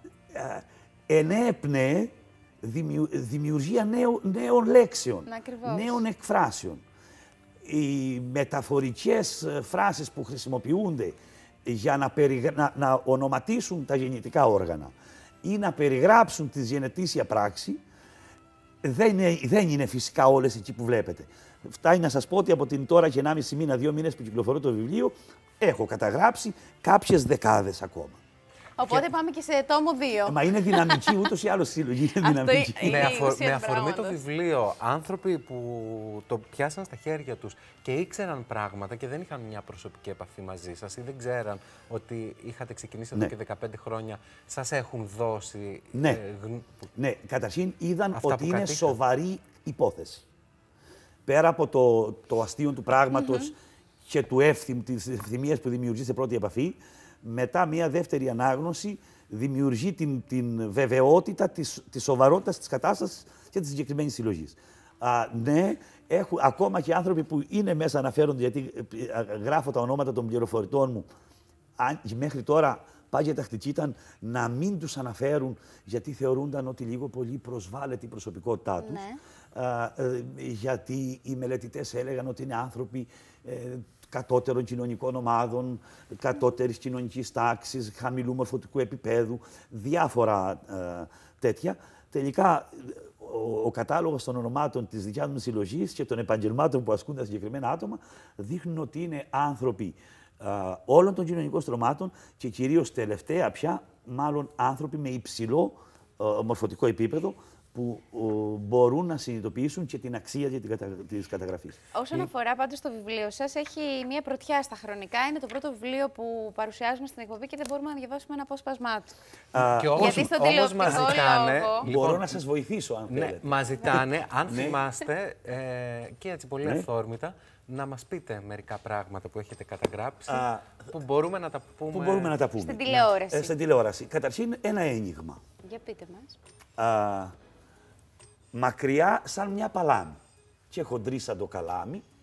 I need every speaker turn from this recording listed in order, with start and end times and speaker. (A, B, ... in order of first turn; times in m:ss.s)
0:00.3-0:06.8 A
0:05.3-0:06.0 B
0:07.6-0:17.8 A
0:18.8-0:28.2 A
0:28.8-0:31.2 B
0:30.3-0:33.2 A
0:32.2-0:34.2 B
0:32.8-0:46.8 C
0:45.9-0:46.2 A
0:47.0-0:50.3 A
0:48.2-0:49.0 C
0:51.3-1:11.1 A
0:53.1-0:53.5 B
1:11.8-1:19.0 A
1:18.8-1:19.2 B
1:19.5-1:51.8 A
1:51.9-1:59.2 B
1:59.5-2:00.3 A
1:59.6-2:02.4 C
2:00.0-2:01.9 B
2:00.9-2:01.2 A
2:01.8-2:04.8 A
2:03.1-2:12.4 C
2:06.6-2:06.9 A
2:10.3-2:10.8 A
2:11.9-2:15.4 A
2:12.6-2:13.6 B
2:15.6-2:16.4 B
2:16.8-2:17.3 A
2:18.5-2:20.2 A
2:20.7-2:22.0 A